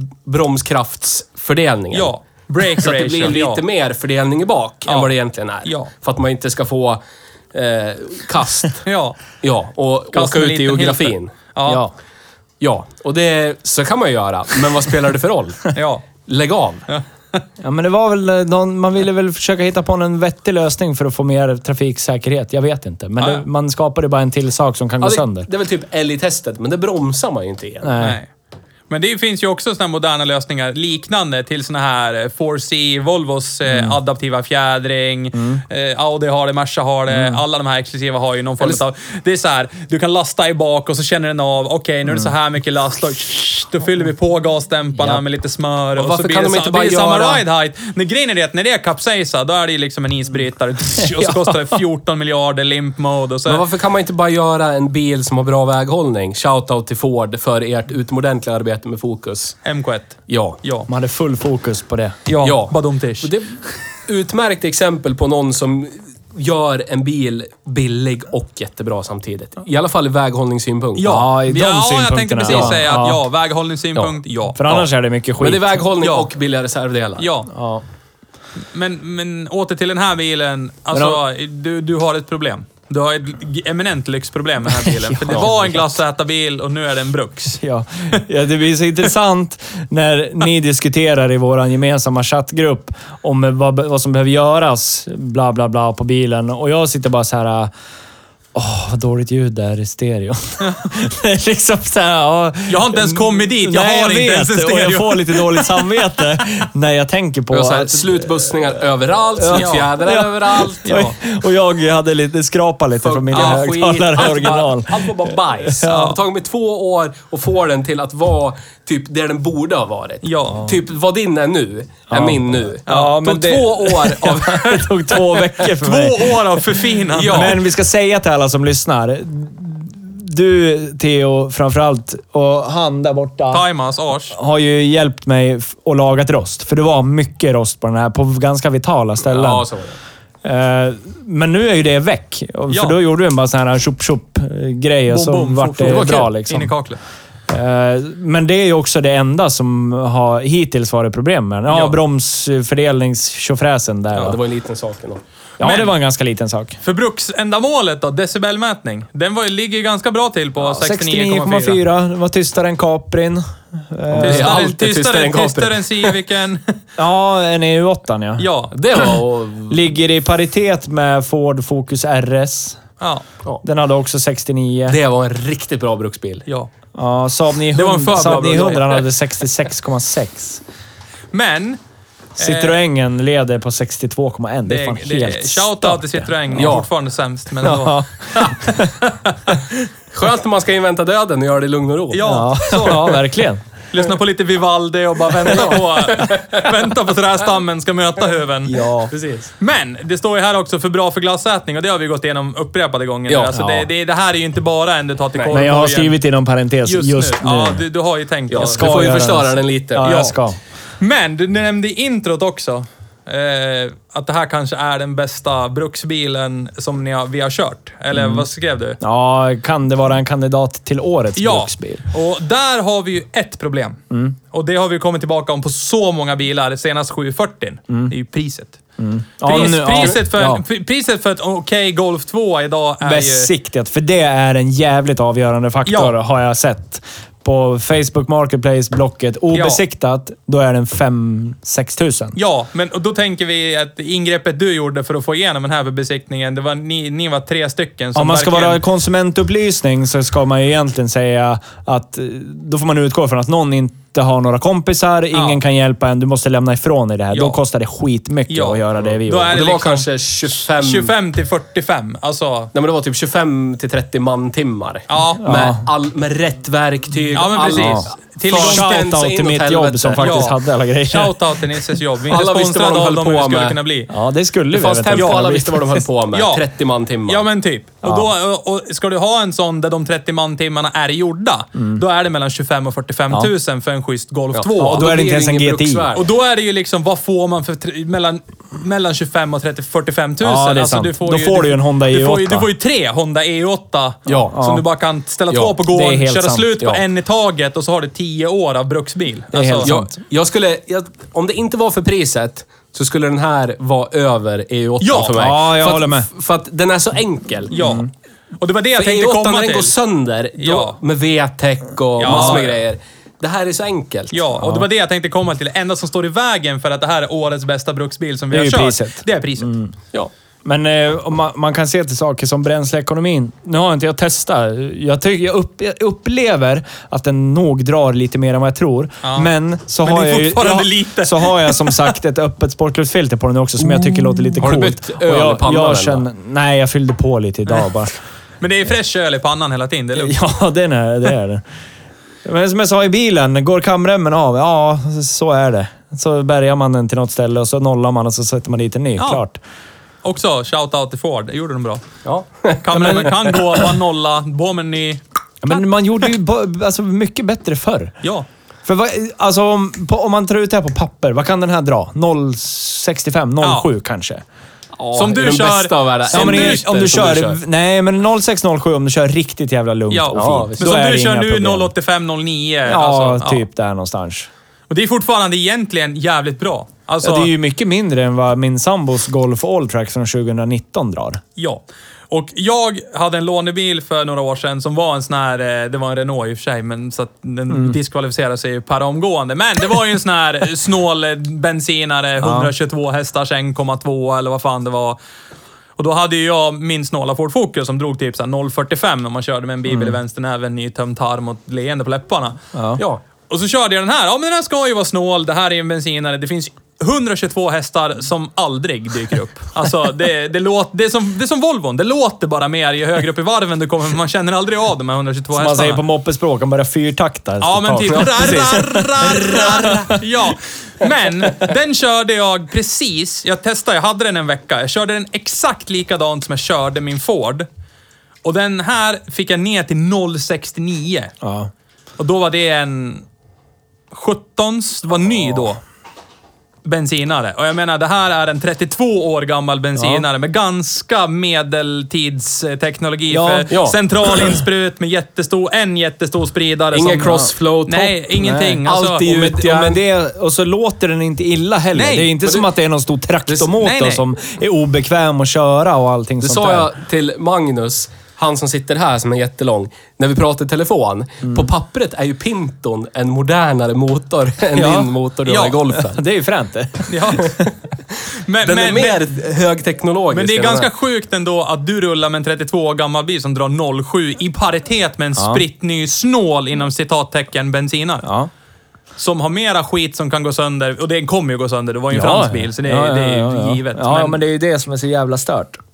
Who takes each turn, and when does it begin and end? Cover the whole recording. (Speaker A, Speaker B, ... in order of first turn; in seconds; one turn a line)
Speaker A: 0.2-2.1
Speaker B: 1.9-3.6
Speaker A: 2.7-7.0
Speaker B: 4.9-5.1
Speaker B: 5.6-5.9
Speaker A: 7.5-8.9
Speaker B: 8.8-9.2
Speaker A: 9.4-11.3
Speaker B: 10.1-11.8
Speaker A: 12.6-15.7
Speaker B: 15.7-16.1
Speaker A: 16.3-16.9
Speaker B: 16.9-17.4
Speaker C: 17.6-25.5
Speaker A: 25.0-28.0
Speaker C: 27.8-28.2
Speaker B: 28.0-28.3
Speaker B: 28.9-53.6
Speaker C: 33.7-34.0
Speaker C: 35.3-35.6
Speaker C: 37.1-37.4
Speaker C: 42.1-42.3
Speaker A: 46.0-47.4
Speaker C: 51.0-51.7
Speaker A: 53.5-59.6
Speaker B: 59.6-60.9
Speaker A: 60.3-60.6
Speaker C: 60.9-62.2
Speaker B: 62.3-63.3
Speaker A: 62.4-71.2
Speaker B: 71.0-74.6
Speaker C: 71.0-73.2
Speaker A: 72.5-72.8
Speaker C: 74.5-75.9
Speaker A: 75.4-77.3
Speaker B: 76.0-76.3
Speaker B: 77.2-77.5
Speaker C: 77.5-77.8
Speaker B: 78.7-87.6
Speaker C: 80.9-81.2
Speaker C: 84.9-85.6
Speaker C: 87.6-97.7
Speaker C: 98.5-108.8
Speaker B: 100.6-100.9
Speaker B: 102.7-105.8
Speaker A: 107.5-110.9
Speaker C: 109.3-116.1
Speaker B: 109.5-109.9
Speaker B: 110.8-111.2
Speaker A: 113.0-125.5
Speaker B: 113.3-113.6
Speaker B: 114.2-114.5
Speaker B: 115.8-116.2
Speaker B: 120.2-120.7
Speaker C: 122.1-133.6
Speaker B: 122.9-123.2
Speaker B: 125.8-127.6
Speaker A: 127.1-127.6
Speaker B: 133.5-134.3
Speaker C: 134.3-139.7
Speaker A: 139.3-140.0
Speaker C: 140.4-146.7
Speaker B: 142.7-143.0
Speaker B: 145.1-147.0
Speaker A: 145.8-146.3
Speaker C: 147.5-154.4
Speaker B: 151.7-152.0
Speaker A: 154.2-155.2
Speaker C: 155.6-156.8
Speaker B: 155.6-155.9
Speaker B: 156.8-161.8
Speaker C: 160.6-164.7
Speaker A: 164.1-166.1
Speaker B: 164.2-166.8
Speaker C: 167.0-168.5
Speaker B: 168.4-168.8
Speaker A: 168.7-169.8
Speaker C: 169.7-172.8
Speaker B: 173.0-173.2
Speaker C: 173.6-175.0
Speaker A: 174.9-176.5
Speaker C: 176.9-180.6
Speaker B: 177.7-179.0
Speaker B: 181.3-181.8
Speaker B: 182.4-182.8
Speaker C: 182.4-186.8
Speaker B: 184.7-189.4
Speaker A: 186.5-186.9
Speaker C: 187.6-189.0
Speaker A: 190.1-193.2
Speaker B: 192.1-193.2
Speaker C: 192.2-193.6
Speaker B: 193.9-198.8
Speaker A: 195.4-196.7
Speaker C: 198.7-199.1
Speaker A: 199.1-199.5
Speaker B: 199.6-206.2
Speaker A: 203.3-203.9
Speaker C: 205.5-207.8
Speaker B: 206.9-208.9
Speaker A: 208.5-210.2
Speaker C: 208.5-210.6
Speaker B: 210.0-210.4
Speaker B: 211.0-219.0
Speaker C: 218.1-218.5
Speaker C: 219.0-222.1
Speaker B: 221.4-224.0
Speaker B: 224.5-228.8
Speaker C: 229.0-230.6
Speaker B: 229.4-233.5
Speaker A: 229.6-230.1
Speaker C: 233.0-242.4
Speaker B: 235.9-236.1
Speaker B: 239.5-239.8
Speaker B: 242.4-248.8
Speaker C: 248.2-259.7
Speaker B: 255.3-255.6
Speaker B: 257.3-257.6
Speaker B: 258.5-262.7
Speaker A: 259.4-261.1
Speaker A: 262.7-270.5
Speaker B: 265.1-265.7
Speaker C: 265.4-265.8
Speaker B: 267.3-268.9
Speaker C: 267.6-271.4
Speaker B: 270.2-270.6
Speaker B: 271.1-274.1
Speaker A: 272.3-273.8
Speaker C: 274.1-276.1
Speaker A: 274.7-277.5
Speaker B: 275.1-275.5
Speaker B: 276.3-276.6
Speaker B: 277.3-285.1
Speaker C: 278.0-278.3
Speaker C: 281.8-282.0
Speaker A: 284.5-286.3
Speaker C: 284.9-286.1
Speaker B: 286.1-299.9
Speaker C: 290.4-292.7
Speaker A: 294.3-294.6
Speaker C: 294.5-294.9
Speaker A: 295.5-295.8
Speaker C: 295.9-296.7
Speaker C: 299.5-300.1
Speaker A: 299.8-307.8
Speaker B: 305.0-305.4
Speaker C: 305.3-306.3
Speaker B: 307.7-308.1
Speaker C: 307.8-308.1
Speaker B: 308.6-309.9
Speaker A: 309.0-314.4
Speaker B: 310.6-311.0
Speaker B: 312.2-312.7
Speaker C: 312.3-312.6
Speaker B: 314.3-319.7
Speaker C: 314.6-314.9
Speaker C: 318.5-319.9
Speaker C: 320.6-338.2
Speaker B: 329.2-329.5
Speaker B: 330.0-332.1
Speaker A: 334.6-336.2
Speaker B: 338.6-340.4
Speaker C: 340.1-341.6
Speaker C: 342.4-349.6
Speaker B: 350.2-352.1
Speaker A: 352.2-353.8
Speaker B: 352.8-355.2
Speaker C: 355.6-358.2
Speaker C: 358.9-364.4
Speaker B: 363.6-363.9
Speaker A: 365.0-367.6
Speaker B: 365.1-366.9
Speaker C: 366.3-371.9
Speaker B: 370.1-373.6
Speaker A: 370.4-370.9
Speaker C: 372.9-374.5
Speaker B: 374.9-377.5
Speaker C: 377.2-381.4
Speaker B: 381.6-395.2
Speaker C: 387.7-388.0
Speaker C: 392.4-392.7
Speaker B: 396.0-402.6
Speaker C: 399.9-400.2
Speaker C: 402.7-403.0
Speaker B: 403.5-416.0
Speaker C: 415.5-420.3
Speaker B: 417.6-427.7
Speaker B: 428.4-431.3
Speaker C: 431.4-431.7
Speaker B: 432.2-433.2
Speaker B: 434.1-435.8
Speaker B: 436.9-449.2
Speaker C: 440.0-440.2
Speaker C: 443.3-443.7
Speaker A: 443.7-444.0
Speaker A: 446.9-448.2
Speaker C: 447.2-447.5
Speaker C: 448.4-456.9
Speaker A: 448.9-450.0
Speaker B: 451.9-452.3
Speaker B: 453.7-454.3
Speaker A: 456.4-466.2
Speaker C: 464.8-465.1
Speaker B: 465.5-465.8
Speaker C: 465.9-467.7
Speaker B: 467.1-467.6
Speaker B: 468.5-469.2
Speaker A: 468.6-470.9
Speaker B: 470.3-478.3
Speaker C: 475.4-475.6
Speaker C: 478.2-478.5
Speaker B: 479.2-484.4
Speaker C: 482.1-485.8